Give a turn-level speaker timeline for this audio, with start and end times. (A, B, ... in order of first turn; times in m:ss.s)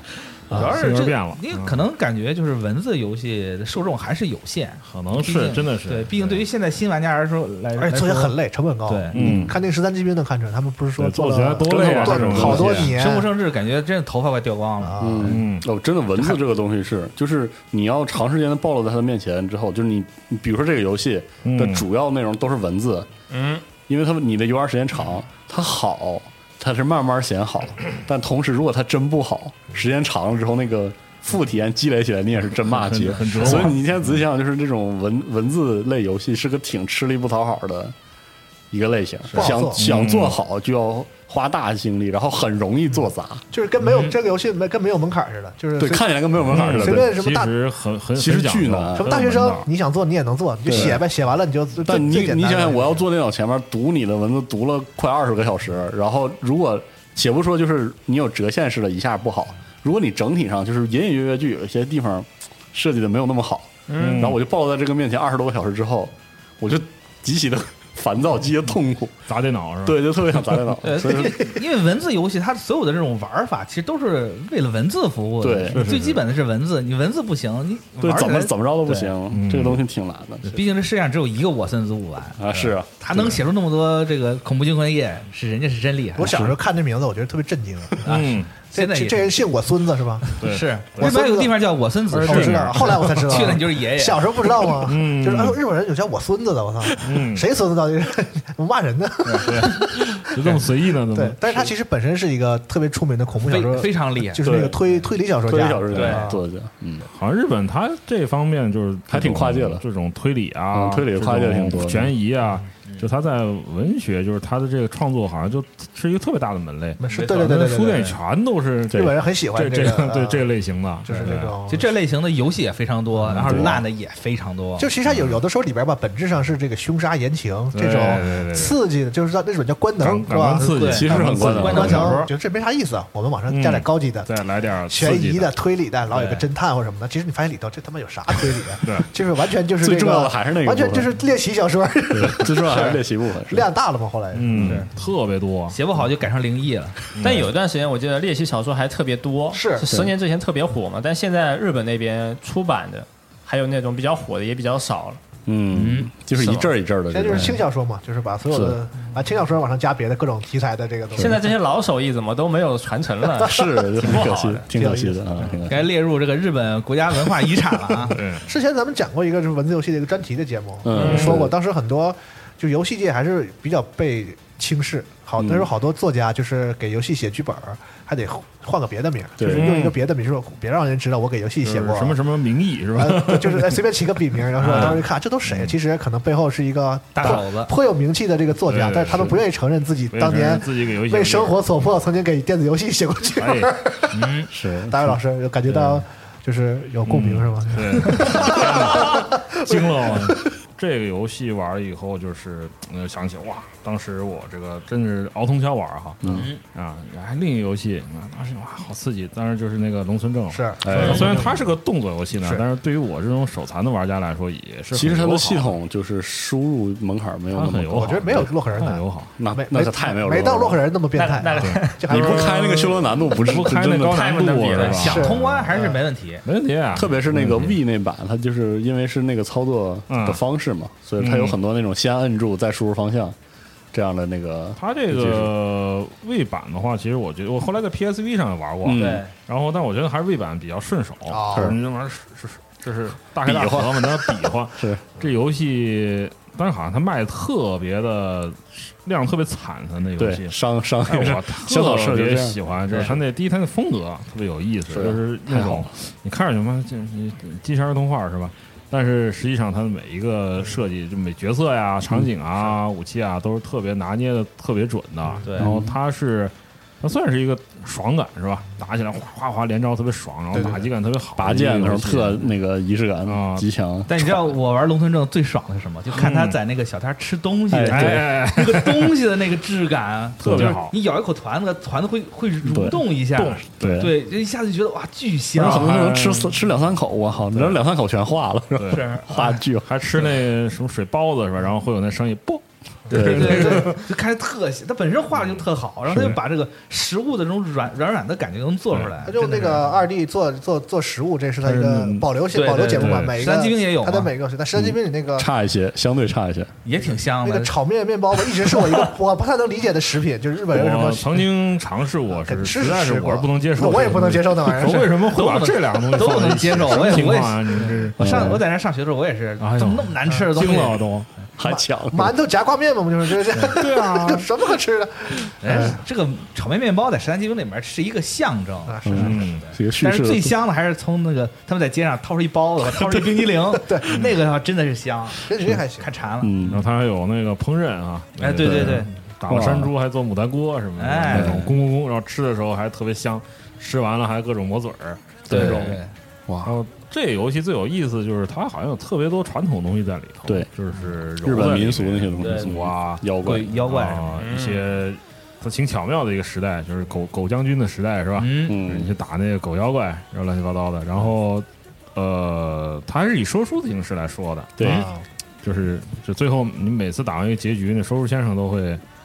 0:00.5-0:00.8 A
0:00.5-0:09.1 B
0:00.5-0:01.8 C
0:04.8-0:06.4 C
0:07.8-0:13.3 A
0:09.1-0:09.6 C
0:09.1-0:09.5 D
0:11.0-0:12.9 C
0:11.6-0:13.0 D
0:12.4-0:15.0 B
0:14.8-0:15.4 A
0:15.0-0:23.1 D
0:15.3-0:15.6 C
0:21.4-0:21.8 C
0:23.3-0:23.6 E
0:23.8-0:37.9 D
0:32.7-0:33.8 C
0:33.3-0:33.7 B
0:38.7-0:43.4 D
0:39.3-0:39.9 A
0:39.8-0:40.4 C
0:43.5-0:47.5 A
0:43.8-0:44.2 B
0:45.8-0:47.2 D
0:46.5-0:49.7 C
0:48.2-0:49.1 D
0:49.0-0:53.0 A
0:50.6-0:51.0 D
0:51.8-1:09.2 D
1:03.9-1:04.3 E
1:04.0-1:04.4 C
1:09.3-1:10.6 C
1:09.8-1:11.6 D
1:10.8-1:19.1 B
1:15.4-1:15.9 D
1:15.7-1:16.2 C
1:18.0-1:20.6 D
1:19.3-1:19.8 C
1:20.4-1:26.6 B
1:22.4-1:23.4 D
1:26.2-1:30.3 A
1:28.0-1:29.3 B
1:28.0-1:28.5 C
1:30.2-1:34.5 B
1:30.4-1:31.1 C
1:31.0-1:31.6 A
1:32.1-1:46.4 A
1:32.2-1:33.6 C
1:34.6-1:35.6 C
1:37.0-1:37.4 C
1:39.2-1:39.5 B
1:39.4-1:41.7 C
1:43.5-1:44.4 B
1:44.4-1:44.8 D
1:45.4-1:47.1 D
1:45.9-1:46.3 B
1:47.1-2:01.6 C
1:49.1-1:49.8 D
1:50.7-1:52.1 D
1:57.0-1:58.0 A
1:57.1-1:57.4 E
1:58.9-1:59.2 D
1:58.9-2:00.5 A
2:01.0-2:02.0 A
2:01.7-2:04.9 B
2:03.3-2:03.6 C
2:03.4-2:03.8 D
2:04.8-2:24.8 A
2:05.0-2:05.4 C
2:07.7-2:08.8 C
2:10.0-2:12.3 C
2:10.6-2:12.3 B
2:10.9-2:12.1 D
2:13.5-2:15.5 C
2:16.1-2:16.5 B
2:18.8-2:19.1 C
2:19.8-2:21.1 D
2:22.1-2:23.7 D
2:24.3-2:25.8 C
2:24.5-2:24.8 D
2:25.7-2:27.0 B
2:27.1-2:27.4 C
2:27.2-2:35.2 E
2:29.5-2:29.9 A
2:35.4-2:37.6 D
2:35.7-2:36.7 B
2:37.1-2:41.5 A
2:38.5-2:38.8 D
2:41.1-2:43.6 E
2:43.4-2:45.8 D
2:43.4-2:45.5 A
2:44.0-2:44.6 B
2:44.2-2:44.6 E
2:45.6-2:48.2 B
2:48.0-3:02.2 A
2:48.1-2:48.5 C
2:50.8-2:51.5 D
2:51.0-2:51.4 E
2:55.4-2:55.7 D
2:59.4-2:59.7 D
2:59.5-3:00.0 C
3:01.6-3:03.8 C
3:03.0-3:14.2 A
3:04.6-3:05.8 C
3:04.6-3:05.0 B
3:07.1-3:07.7 B
3:08.6-3:09.4 C
3:10.1-3:11.6 C
3:13.4-3:13.7 C
3:14.1-3:14.5 B
3:14.5-3:15.2 D
3:14.9-3:20.4 A
3:15.6-3:16.0 C
3:17.0-3:35.7 C
3:26.2-3:26.5 D
3:26.3-3:26.6 B
3:30.5-3:31.4 A
3:30.8-3:31.4 D
3:30.9-3:31.4 B
3:34.9-3:38.5 D
3:37.5-3:39.3 C
3:38.0-3:42.7 A
3:39.4-3:40.8 D
3:41.1-3:42.2 E
3:41.6-3:45.7 C
3:42.1-3:44.2 D
3:44.0-3:45.2 E
3:44.8-3:46.4 B
3:45.0-3:45.8 A
3:46.4-3:47.7 C
3:46.9-3:53.4 D
3:50.1-3:50.4 C
3:51.2-3:51.6 C
3:53.9-3:55.5 D
3:54.8-4:10.5 C
3:58.8-3:59.2 D
3:59.0-3:59.3 B
4:01.3-4:01.7 A
4:03.4-4:05.0 D
4:10.2-4:12.6 D
4:11.0-4:32.5 C
4:12.9-4:13.2 B
4:14.9-4:15.9 D
4:25.4-4:25.7 B
4:25.6-4:25.9 D
4:30.5-4:30.9 A
4:31.4-4:34.4 D
4:33.2-4:33.6 C
4:34.1-4:45.9 B
4:36.1-4:36.6 C
4:37.7-4:38.3 D
4:37.9-4:39.1 C
4:40.4-4:40.8 D
4:40.4-4:40.9 C
4:42.6-4:43.0 D
4:43.3-4:44.1 C
4:43.8-4:44.1 D
4:45.6-4:49.9 D
4:45.6-4:46.6 C
4:47.5-4:47.8 C
4:48.7-4:54.0 C
4:48.9-4:49.2 B
4:53.1-4:53.9 D
4:53.1-5:00.0 B
4:55.3-4:55.6 C
4:56.1-4:56.4 D
4:58.9-4:59.2 C
4:59.2-5:05.5 A
5:01.6-5:02.3 C
5:02.5-5:04.3 B
5:02.9-5:03.4 C
5:04.7-5:06.7 D
5:06.8-5:07.8 B
5:07.4-5:11.5 A
5:10.7-5:18.6 C
5:12.3-5:15.1 A
5:15.0-5:21.0 B
5:18.2-5:18.6 D
5:19.6-5:21.3 C
5:21.6-5:22.4 D
5:21.6-5:26.0 A
5:23.5-5:24.5 C
5:25.6-5:36.5 B
5:28.8-5:29.4 A
5:29.0-5:30.6 D
5:29.2-5:29.6 C
5:33.7-5:34.3 A
5:35.3-5:36.1 A
5:36.4-5:36.8 D
5:36.7-5:46.0 C
5:38.4-5:39.1 B
5:38.6-5:39.9 D
5:41.0-5:41.6 B
5:41.3-5:41.7 D
5:45.5-5:46.8 D
5:45.5-5:46.1 B
5:46.6-6:05.1 C
5:51.4-5:53.7 D
5:52.4-5:52.7 B
5:53.4-5:54.4 B
5:54.4-5:54.8 E
5:58.4-5:58.8 B
5:58.7-5:59.1 D
6:04.8-6:05.0 D
6:04.8-6:05.2 A
6:05.6-6:09.0 C